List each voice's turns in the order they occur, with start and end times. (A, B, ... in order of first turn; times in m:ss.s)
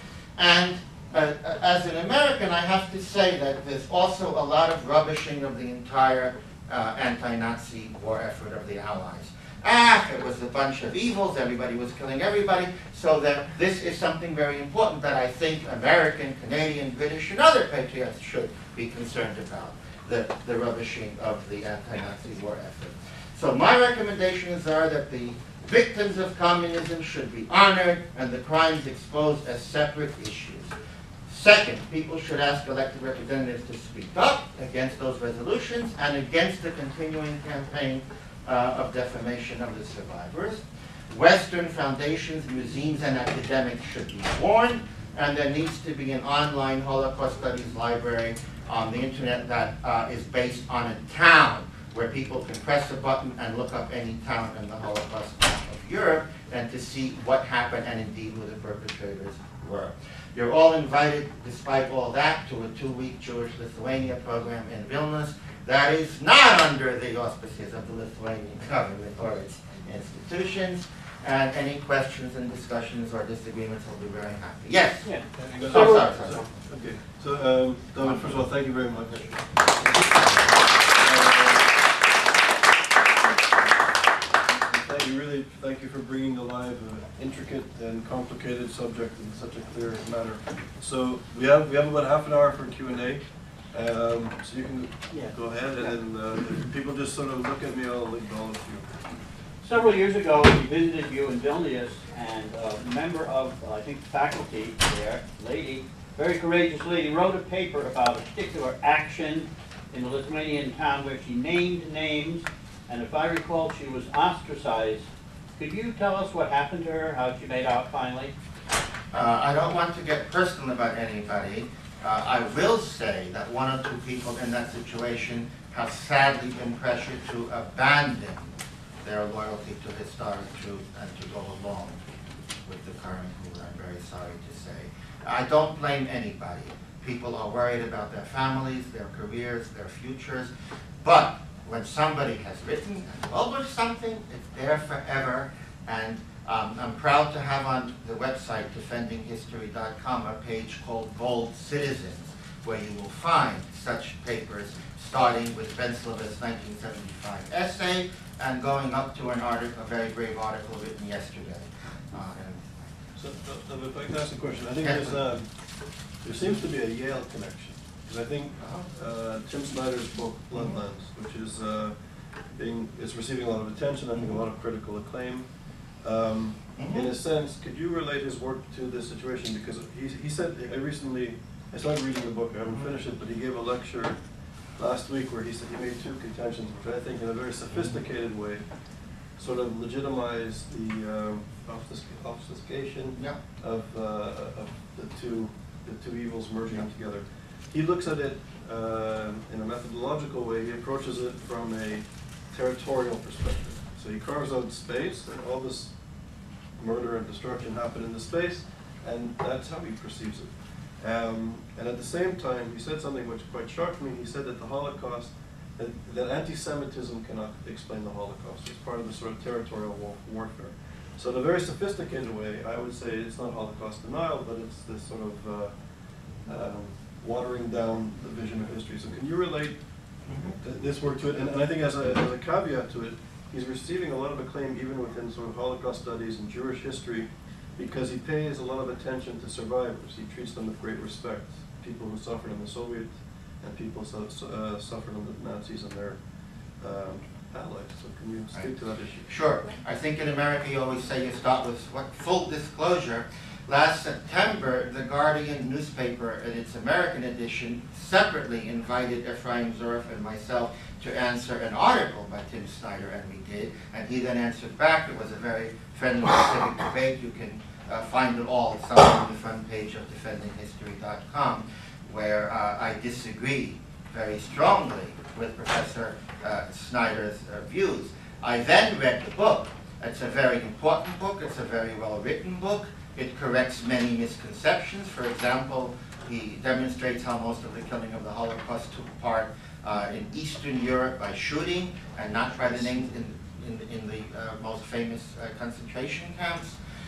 0:00.4-0:30.7 A
0:31.3-1:16.6 A
1:15.0-1:16.0 B
1:15.4-1:21.8 C
1:18.0-1:18.4 A
1:19.0-1:19.3 A
1:24.7-1:39.0 C
1:39.6-1:55.1 B
1:55.6-1:58.3 B
1:59.1-2:08.5 A
2:09.0-2:12.0 A
2:12.6-2:20.5 A
2:21.0-2:42.8 A
2:43.2-3:26.0 C
2:44.8-2:45.2 A
2:48.6-2:48.9 A
2:50.5-2:50.8 A
2:56.8-2:57.1 A
3:07.7-3:07.9 A
3:26.7-4:09.3 C
3:50.3-3:50.6 A
4:08.5-4:56.8 A